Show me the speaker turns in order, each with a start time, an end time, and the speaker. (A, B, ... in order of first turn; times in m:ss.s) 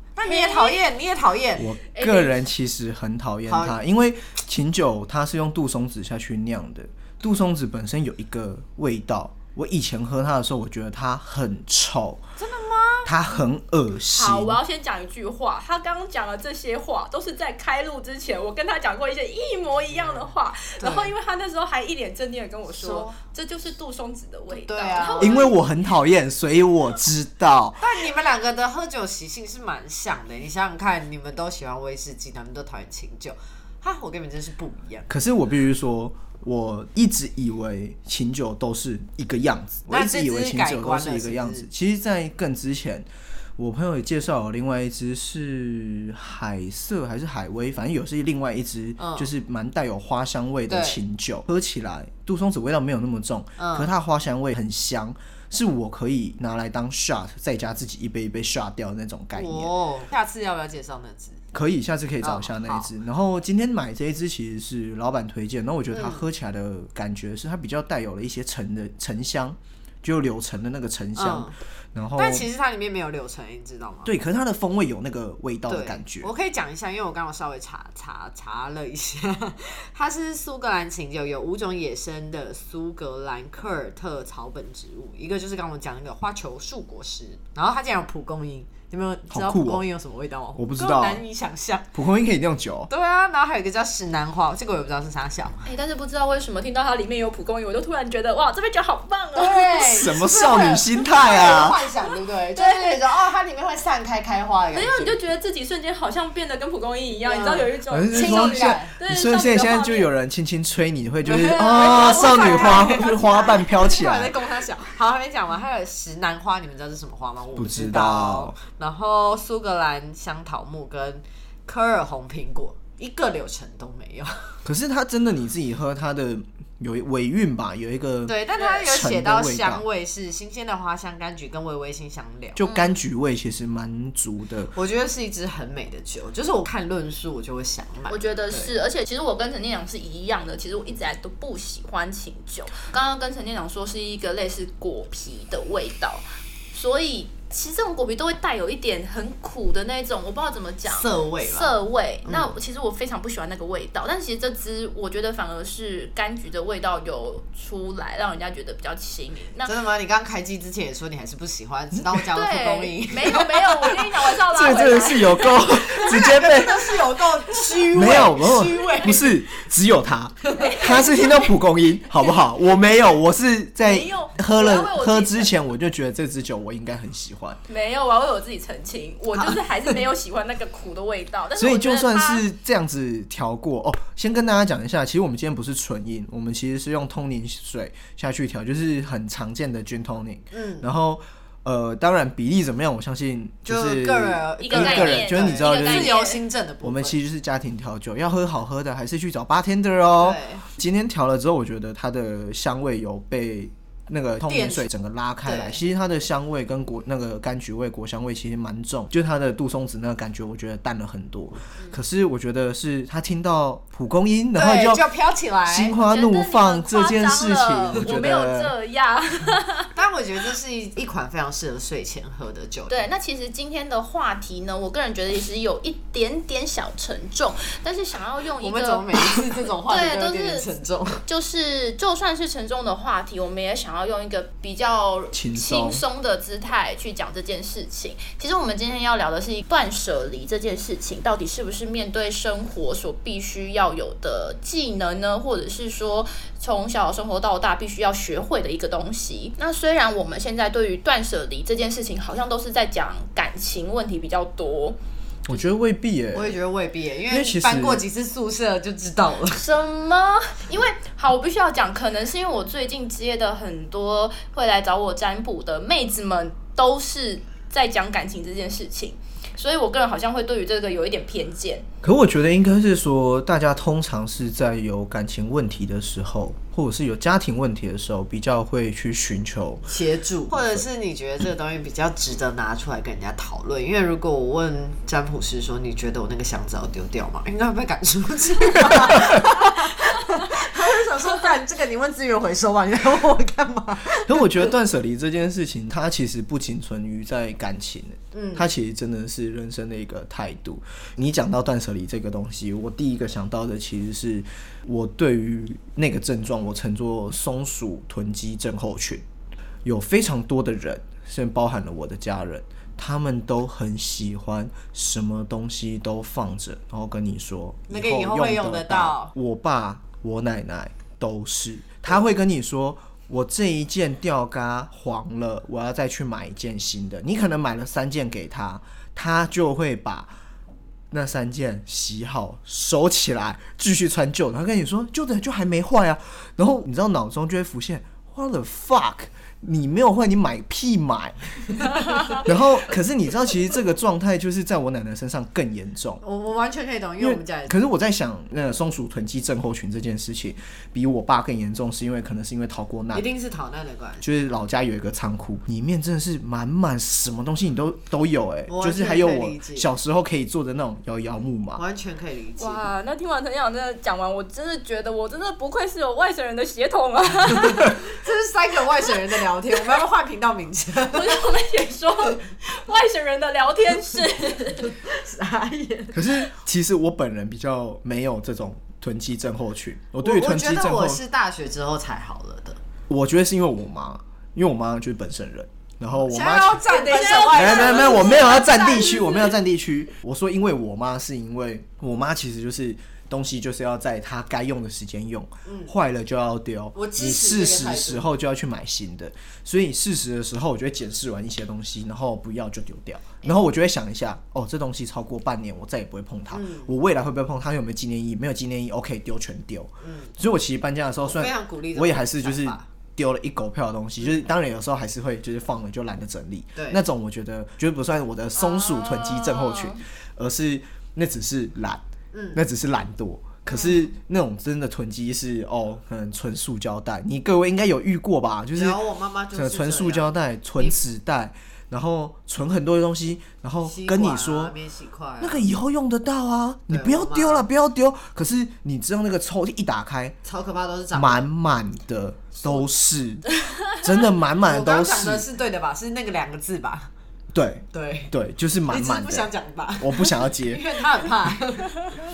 0:00.2-0:01.7 A
0:00.2-0:00.8 B
0:01.6-0:12.2 C
0:01.9-0:02.5 B
0:03.5-0:03.8 A
0:12.4-0:13.1 A
0:13.0-0:14.6 C
0:14.2-0:25.6 B
0:19.9-0:21.1 A
0:22.7-0:23.2 A
0:24.5-0:25.5 A
0:25.2-0:27.9 C
0:27.8-0:35.1 A
0:35.1-0:59.7 C
0:39.9-0:41.7 A
0:49.0-0:49.3 A
0:50.7-0:51.0 A
0:53.6-0:53.9 A
0:59.4-1:01.4 A
1:01.5-1:12.5 C
1:02.2-1:02.9 A
1:05.9-1:06.3 A
1:11.2-1:11.6 A
1:12.2-1:14.1 A
1:14.0-1:16.3 C
1:15.7-1:32.0 A
1:29.3-1:29.8 C
1:30.6-1:31.2 C
1:31.9-1:32.9 C
1:32.9-1:35.7 A
1:35.6-1:40.1 B
1:39.4-1:45.2 A
1:39.9-1:41.8 C
1:41.2-1:41.7 B
1:42.5-1:43.0 B
1:44.7-1:50.1 B
1:47.3-1:48.9 A
1:47.9-1:54.4 C
1:51.2-2:04.6 A
1:51.5-1:53.7 B
1:57.6-1:58.6 C
2:04.6-2:09.8 C
2:08.3-2:12.6 A
2:12.6-2:14.7 C
2:12.6-2:12.9 B
2:14.7-2:18.8 A
2:18.1-2:39.7 B
2:30.9-2:32.5 A
2:39.6-2:44.1 A
2:42.3-2:46.4 B
2:44.5-2:47.0 C
2:45.7-2:49.5 A
2:47.9-2:57.6 C
2:50.5-2:50.9 A
2:50.6-2:51.5 B
2:53.8-2:55.5 B
2:57.7-3:02.4 B
3:01.6-3:16.2 C
3:10.5-3:10.9 A
3:13.7-3:17.2 A
3:14.6-3:16.4 B
3:16.8-3:35.0 C
3:20.2-3:20.6 A
3:24.5-3:24.9 A
3:25.4-3:25.8 A
3:34.6-3:36.0 A
3:35.7-3:38.7 C
3:36.1-3:39.9 B
3:40.0-3:43.0 A
3:42.9-3:49.1 B
3:48.6-3:51.2 A
3:49.9-3:50.7 B
3:51.2-4:15.0 B
3:55.3-3:56.0 C
4:15.5-4:16.6 C
4:16.3-4:19.6 A
4:17.3-4:18.0 C
4:19.5-4:31.9 B
4:32.0-4:39.9 C
4:39.9-4:54.6 A
4:40.5-4:40.8 C
4:54.1-5:09.2 C
4:58.3-4:58.7 A
5:09.8-5:30.3 C
5:17.9-5:19.3 A
5:31.1-5:46.2 C
5:46.2-5:47.8 A
5:47.2-5:53.3 C
5:53.1-5:54.2 A
5:54.2-6:01.8 C
5:58.7-5:59.9 A
6:01.8-6:02.8 A
6:02.6-6:08.0 B
6:07.8-6:11.4 A
6:11.1-6:15.0 B
6:14.9-6:16.3 A
6:16.1-6:21.2 C
6:20.2-6:22.8 A
6:23.1-6:26.8 C
6:26.2-6:28.8 A
6:26.9-6:29.5 B
6:27.5-7:02.0 C
6:35.7-6:35.9 A
6:37.0-6:38.3 A
6:46.5-6:47.0 A
6:50.0-6:50.3 A
6:51.2-6:52.9 A
6:56.8-6:57.0 A
6:58.6-7:00.0 B
7:02.3-7:02.6 A
7:02.5-7:09.0 C
7:08.7-7:11.0 A
7:09.5-7:14.8 C
7:13.8-7:15.7 A
7:15.4-7:20.4 C
7:16.9-7:17.7 A
7:20.4-7:21.5 A
7:21.1-7:23.5 C
7:23.7-7:24.0 B
7:24.0-7:25.5 C
7:24.6-7:27.1 A
7:27.5-7:30.9 C
7:27.9-7:28.3 A
7:28.9-7:32.0 A